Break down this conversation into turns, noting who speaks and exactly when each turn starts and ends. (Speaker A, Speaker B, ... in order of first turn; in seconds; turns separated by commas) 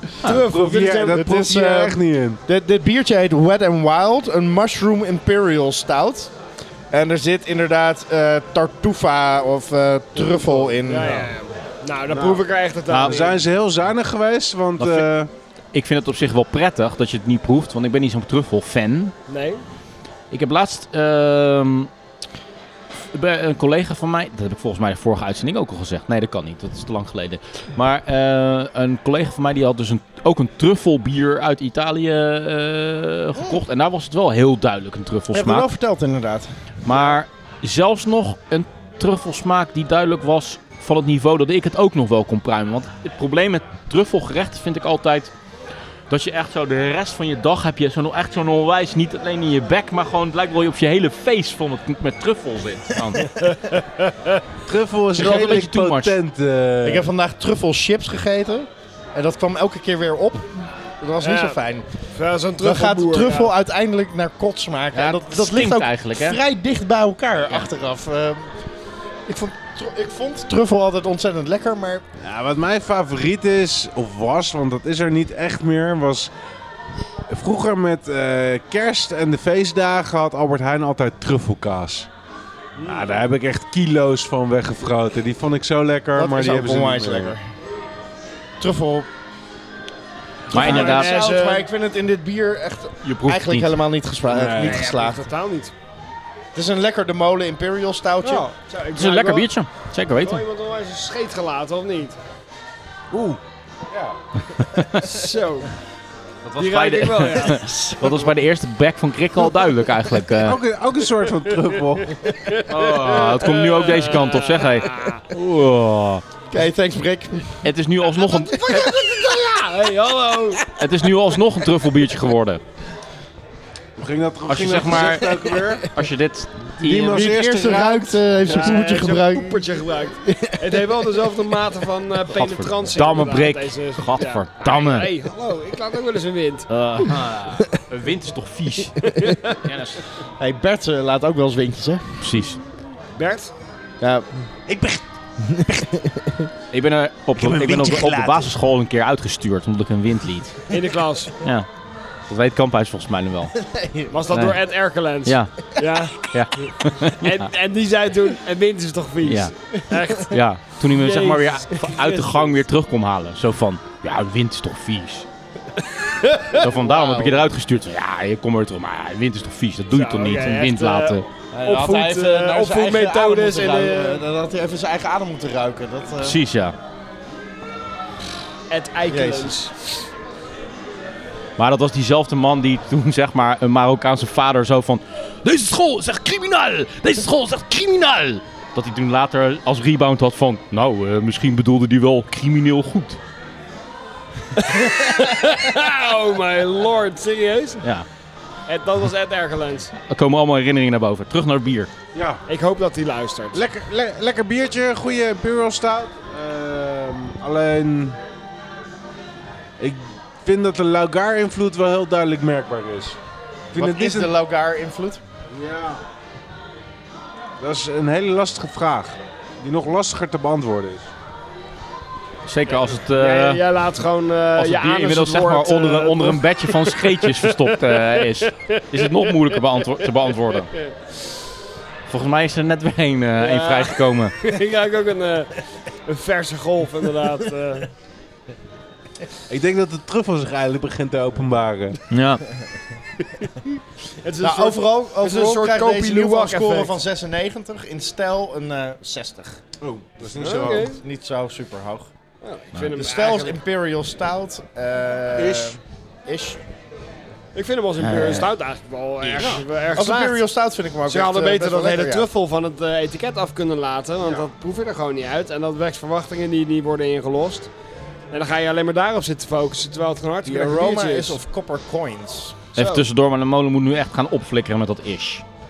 Speaker A: 0.2-1.2, Speaker B: 0.3-2.4, Speaker C: 1.1-6.3, Speaker C: 6.9-11.2, Speaker A: 10.2-13.4, Speaker B: 12.1-12.4, Speaker D: 12.9-13.2, Speaker B: 12.9-15.3, Speaker D: 14.8-15.1, Speaker D: 15.7-19.1, Speaker A: 19.3-19.6, Speaker D: 20.3-21.9, Speaker D: 23.1-35.7, Speaker C: 35.3-37.1, Speaker D: 36.8-45.3, Speaker D: 46.1-53.3, Speaker A: 53.4-54.4, Speaker B: 54.6-57.0, Speaker D: 55.1-56.1, Speaker C: 56.8-61.9, Speaker A: 61.2-61.6, Speaker A: 62.1-63.5, Speaker C: 62.6-68.5, Speaker D: 64.9-66.4, Speaker C: 69.3-72.0, Speaker B: 72.2-76.3, Speaker B: 77.3-82.1, Speaker A: 82.8-83.2, Speaker B: 82.8-87.3, Speaker C: 86.2-87.4, Speaker C: 88.6-89.1, Speaker C: 90.5-95.2, Speaker D: 90.5-91.2, Speaker A: 90.5-91.7, Speaker D: 93.0-93.7, Speaker B: 94.3-94.8, Speaker A: 94.6-95.7, Speaker C: 96.5-98.5, Speaker A: 98.3-99.5, Speaker D: 98.9-100.4, Speaker A: 100.2-102.2, Speaker B: 103.1-103.4, Speaker B: 103.9-104.2, Speaker D: 104.6-105.1, Speaker A: 105.0-105.7, Speaker D: 106.4-110.6, Speaker A: 106.6-107.9, Speaker B: 110.4-112.2, Speaker A: 112.2-115.2, Speaker D: 112.7-116.2, Speaker C: 116.5-117.7, Speaker D: 117.6-118.7, Speaker C: 118.5-119.2, Speaker A: 118.5-120.6, Speaker D: 120.7-122.6, Speaker B: 124.0-126.0, Speaker D: 124.5-127.3, Speaker B: 126.8-128.8, Speaker C: 127.1-129.6, Speaker A: 128.5-136.7, Speaker C: 130.2-130.8, Speaker D: 132.3-135.1, Speaker D: 136.7-140.0, Speaker A: 139.1-139.6, Speaker C: 140.4-142.0, Speaker D: 142.2-142.6, Speaker A: 143.2-143.5, Speaker C: 144.0-144.3, Speaker B: 144.7-145.0, Speaker C: 145.4-146.5, Speaker D: 146.7-150.6, Speaker B: 147.4-148.4, Speaker A: 150.7-151.3, Speaker D: 151.4-151.7, Speaker D: 152.3-153.5, Speaker C: 153.6-154.2, Speaker A: 154.1-156.1, Speaker D: 155.2-155.5, Speaker D: 156.2-157.5, Speaker A: 157.2-160.3, Speaker D: 159.2-159.5, Speaker D: 160.1-165.2, Speaker A: 160.8-162.6, Speaker A: 166.2-166.5, Speaker D: 166.5-171.2, Speaker C: 166.6-167.5, Speaker A: 169.9-174.2, Speaker C: 171.5-176.4, Speaker D: 176.2-176.8, Speaker A: 178.7-179.7, Speaker C: 179.1-179.5, Speaker D: 181.6-193.2, Speaker A: 194.6-197.8, Speaker A: 198.7-199.9, Speaker D: 200.1-201.9, Speaker B: 202.1-202.4, Speaker A: 202.5-203.6, Speaker B: 203.5-208.2, Speaker B: 209.8-213.2, Speaker C: 213.7-215.2, Speaker B: 213.7-214.3, Speaker B: 215.5-216.0, Speaker B: 217.6-221.1, Speaker D: 222.5-223.6, Speaker A: 223.2-230.9, Speaker D: 224.6-230.7, Speaker D: 232.1-234.3, Speaker A: 233.4-237.9, Speaker B: 239.5-242.0, Speaker D: 242.1-242.4, Speaker A: 244.2-247.0, Speaker C: 244.4-249.6, Speaker B: 249.8-251.0, Speaker A: 250.3-251.0, Speaker C: 250.8-252.1, Speaker A: 252.4-253.6, Speaker C: 252.9-256.6, Speaker B: 255.4-255.8, Speaker A: 257.5-260.4, Speaker C: 258.1-258.4, Speaker B: 259.2-259.6, Speaker C: 259.9-262.3, Speaker A: 261.1-267.7, Speaker A: 268.3-271.4, Speaker C: 270.4-272.6, Speaker A: 272.7-273.0, Speaker D: 272.8-275.4